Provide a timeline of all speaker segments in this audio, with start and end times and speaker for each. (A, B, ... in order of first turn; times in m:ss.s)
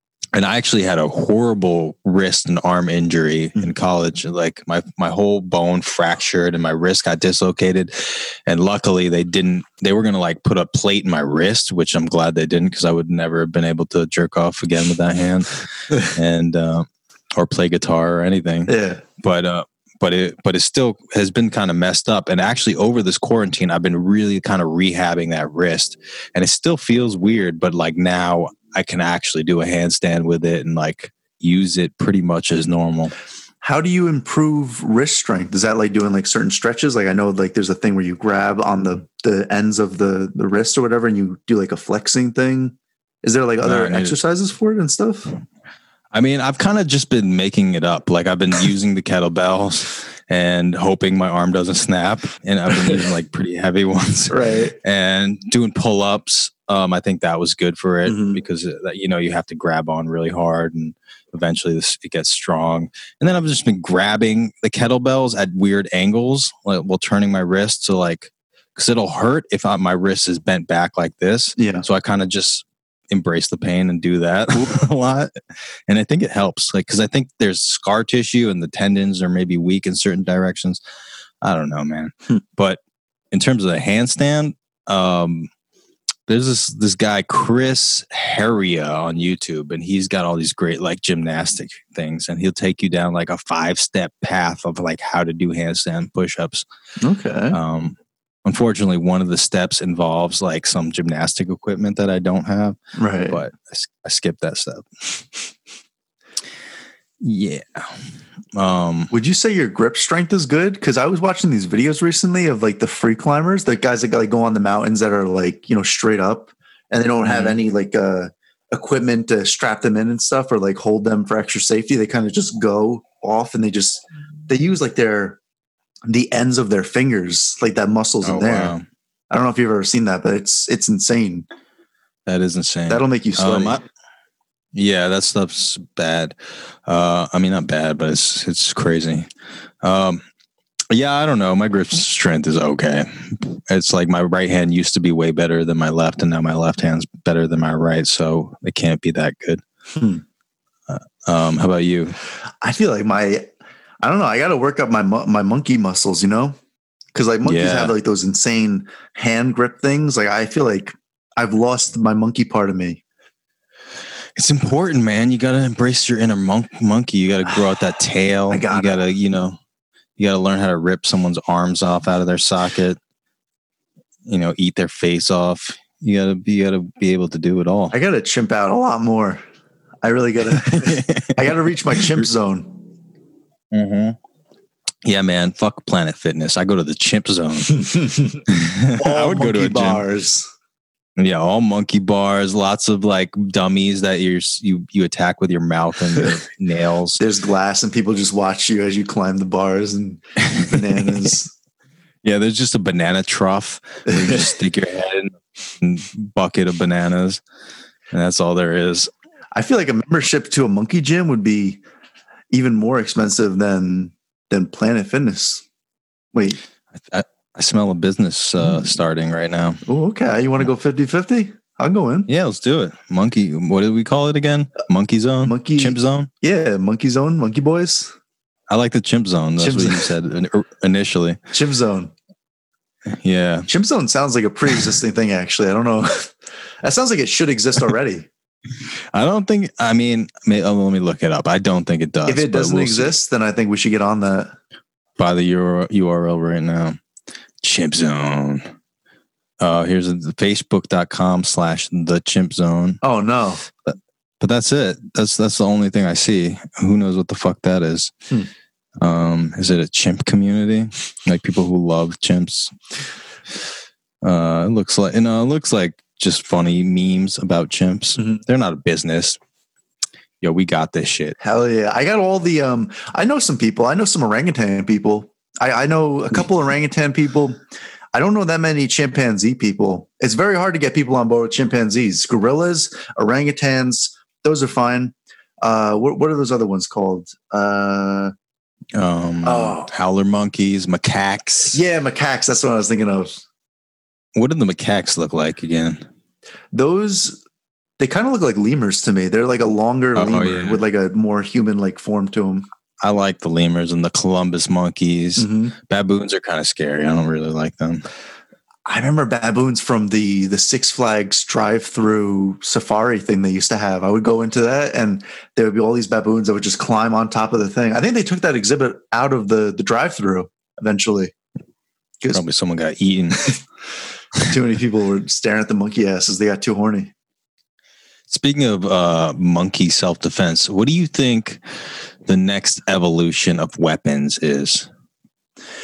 0:00.3-0:33.1 A
0:18.7-0:19.0 B
0:33.6-0:45.4 B
0:43.6-0:44.2 A
0:46.1-1:15.3 A
0:54.3-0:54.7 B
0:58.0-0:58.4 B
1:11.6-1:11.8 B
1:15.9-1:20.8 A
1:21.4-1:22.8 A
1:23.3-1:25.5 A
1:26.3-1:36.6 A
1:37.0-1:37.6 B
1:37.5-1:42.8 A
1:43.0-1:43.4 B
1:43.3-1:45.2 A
1:47.2-1:48.0 A
1:48.5-1:49.1 A
1:49.1-2:05.4 B
1:57.2-1:57.6 A
2:06.1-2:08.7 B
2:08.2-2:08.8 A
2:09.3-2:11.4 B
2:12.2-2:13.8 A
2:12.9-2:13.8 B
2:14.7-2:19.3 A
2:19.8-2:20.2 A
2:20.9-2:29.6 A
2:29.9-2:30.2 B
2:30.9-2:32.2 A
2:32.6-2:33.5 B
2:34.0-2:36.5 B
2:37.1-2:43.0 B
2:37.4-2:37.9 A
2:44.4-2:49.6 A
2:48.5-2:49.0 B
2:50.2-2:53.0 A
2:54.2-2:57.9 A
2:57.9-2:59.4 B
3:00.0-3:02.8 B
3:00.5-3:01.5 A
3:03.7-3:04.2 A
3:05.0-3:07.8 A
3:07.8-3:08.4 B
3:08.5-3:10.0 A
3:09.0-3:10.5 B
3:11.2-3:17.2 A
3:17.2-3:21.5 B
3:20.4-3:21.3 A
3:22.2-3:27.4 A
3:24.1-3:24.5 B
3:28.1-3:29.1 A
3:29.5-3:31.8 B
3:32.5-3:35.6 B
3:36.3-3:36.6 B
3:36.9-3:39.8 A
3:39.9-3:42.3 B
3:42.3-3:46.3 A
3:45.4-3:48.1 B
3:48.7-3:51.4 A
3:49.6-3:50.1 B
3:51.5-3:52.1 B
3:53.1-3:53.7 A
3:53.7-3:58.3 B
3:59.1-4:03.1 A
4:02.3-4:04.6 B
4:05.2-4:07.0 A
4:07.6-4:08.7 A
4:09.6-4:13.0 A
4:13.0-4:13.6 B
4:13.8-4:18.1 A
4:19.0-4:22.8 A
4:24.2-4:29.4 A
4:30.4-4:31.4 A
4:31.4-4:37.6 B
4:38.1-4:48.3 B
4:48.9-4:51.8 A
4:49.4-4:49.9 B
4:51.7-4:53.4 B
4:54.3-4:56.0 A
4:56.7-4:57.4 B
4:58.0-5:02.6 B
5:00.1-5:00.8 A
5:03.0-5:08.0 A
5:05.4-5:05.7 B
5:08.9-5:21.3 B
5:22.3-5:23.5 A
5:24.4-5:27.1 B
5:28.3-5:31.6 A
5:32.2-5:34.9 A